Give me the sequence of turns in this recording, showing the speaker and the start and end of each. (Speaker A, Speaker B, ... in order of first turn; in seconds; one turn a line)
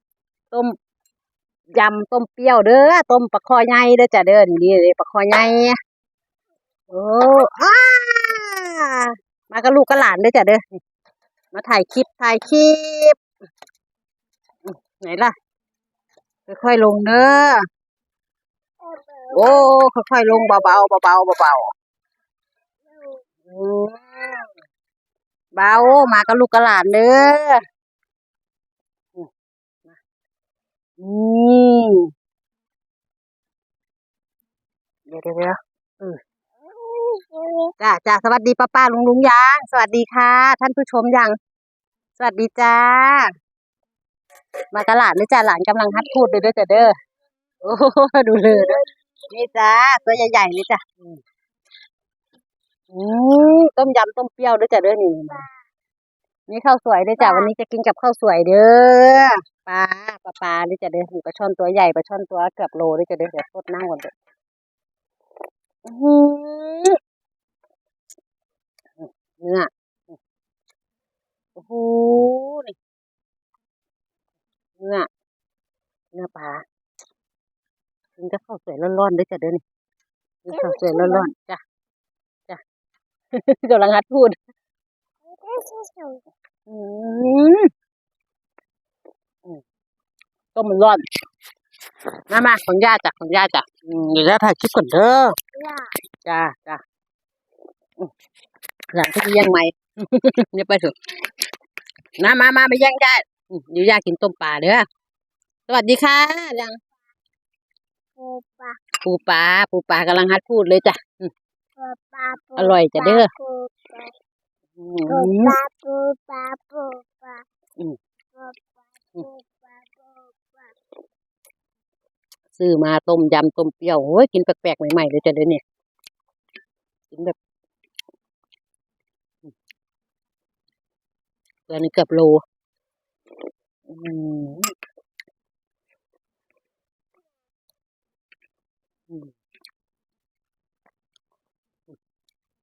Speaker A: 1.7-5.8
Speaker A: 6.9-10.8
Speaker A: 11.5-13.2
Speaker A: 14.6-15.3
Speaker A: 16.5-17.6
Speaker B: 18.8-19.6
Speaker A: 19.3-21.7
Speaker B: 22.9-23.2
Speaker A: 23.4-24.5
Speaker A: 25.5-27.6
Speaker A: 31.0-32.1
Speaker A: 35.1-36.2
Speaker B: 36.7-37.7
Speaker A: 37.8-41.4
Speaker A: 42.2-43.3
Speaker A: 44.7-46.9
Speaker A: 47.6-51.2
Speaker A: 52.9-55.4
Speaker A: 56.5-64.1
Speaker B: 57.2-57.5
Speaker A: 65.8-67.0
Speaker A: 69.0-70.2
Speaker A: 71.5-72.8
Speaker A: 74.8-75.1
Speaker A: 76.1-76.6
Speaker A: 78.2-79.6
Speaker A: 80.4-81.6
Speaker B: 80.6-81.2
Speaker A: 83.3-84.3
Speaker B: 85.3-86.2
Speaker A: 86.7-87.7
Speaker A: 90.5-91.0
Speaker A: 92.3-95.3
Speaker B: 95.5-95.9
Speaker A: 96.2-96.8
Speaker A: 98.9-101.0
Speaker A: 102.2-104.8
Speaker A: 105.7-106.8
Speaker B: 108.2-108.8
Speaker A: 109.0-111.3
Speaker B: 111.8-114.1
Speaker A: 112.6-113.3
Speaker A: 114.8-115.6
Speaker B: 115.1-117.4
Speaker B: 118.3-120.7
Speaker A: 122.5-125.6
Speaker A: 127.1-127.3
Speaker A: 131.7-132.4
Speaker A: 133.9-134.7